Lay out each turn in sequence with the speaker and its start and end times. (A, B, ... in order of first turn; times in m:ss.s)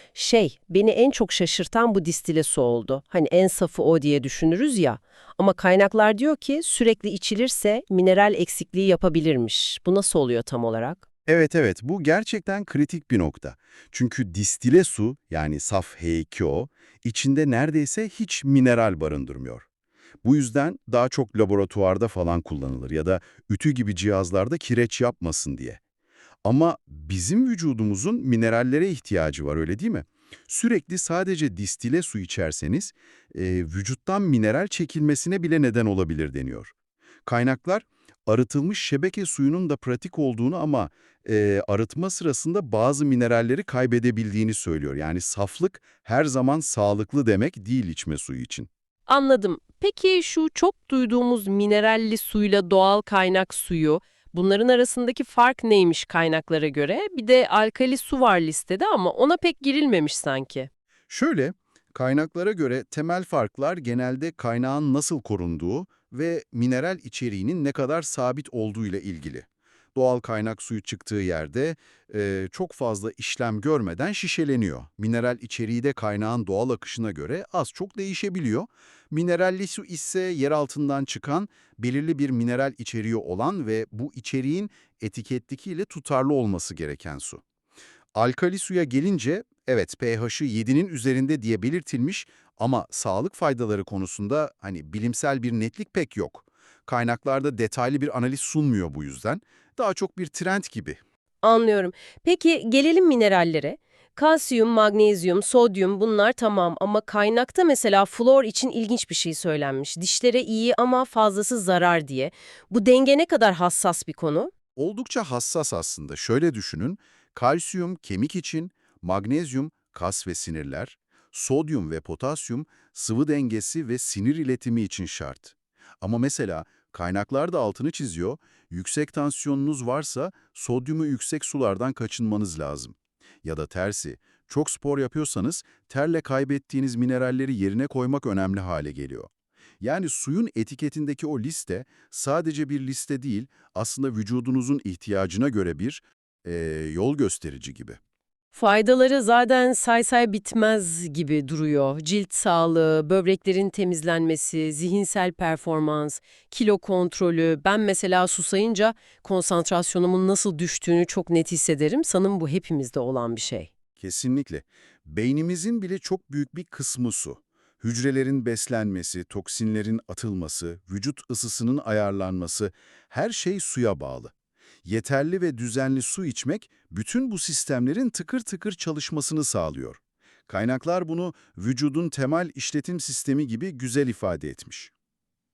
0:00.1-0:11.0 A
0:11.2-0:19.6 B
0:20.2-0:25.8 B
0:26.4-0:36.7 B
0:37.2-0:48.7 B
0:49.1-1:00.7 A
1:01.1-1:27.4 B
1:28.1-1:41.0 B
1:41.4-1:54.5 A
1:54.8-2:28.0 B
2:28.5-2:43.7 A
2:44.0-2:54.3 B
2:54.8-3:04.9 B